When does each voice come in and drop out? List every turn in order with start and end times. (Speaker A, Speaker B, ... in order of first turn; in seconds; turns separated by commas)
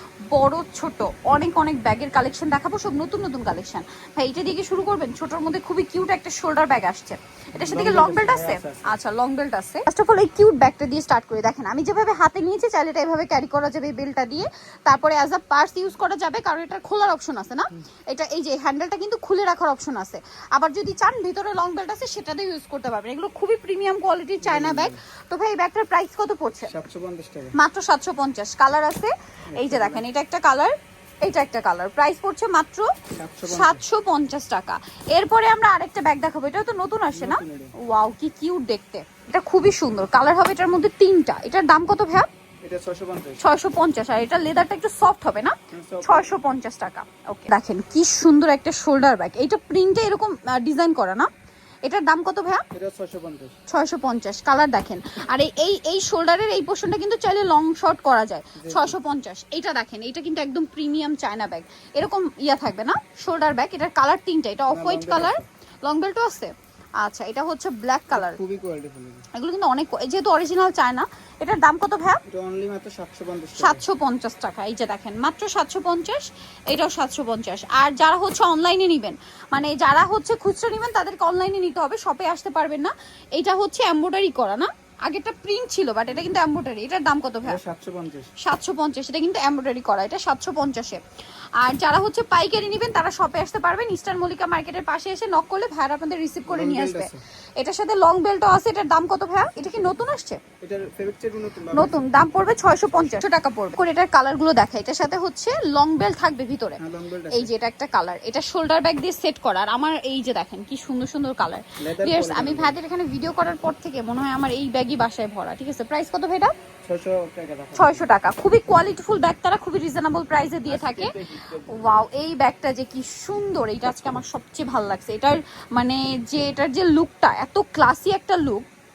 Speaker A: 0.3-26.7, Speaker B: 7.5-9.0, Speaker B: 24.4-25.0, Speaker B: 26.6-27.6, Speaker A: 27.5-32.9, Speaker B: 29.5-30.0, Speaker B: 33.1-33.8, Speaker A: 33.5-42.3, Speaker B: 37.1-37.7, Speaker B: 42.6-43.4, Speaker A: 43.4-51.3, Speaker B: 45.7-46.4, Speaker A: 51.8-52.6, Speaker B: 52.7-53.5, Speaker A: 53.7-68.4, Speaker B: 58.6-59.0, Speaker B: 64.7-65.4, Speaker B: 68.1-69.3, Speaker A: 69.3-72.2, Speaker B: 72.3-73.8, Speaker A: 73.6-87.6, Speaker B: 87.4-88.3, Speaker A: 88.4-91.0, Speaker A: 91.6-100.4, Speaker B: 96.5-97.2, Speaker B: 100.6-103.2, Speaker A: 101.7-116.5, Speaker B: 106.8-107.5, Speaker B: 111.8-112.8, Speaker B: 116.8-118.1, Speaker A: 117.7-121.1, Speaker B: 120.7-122.0, Speaker A: 121.7-128.7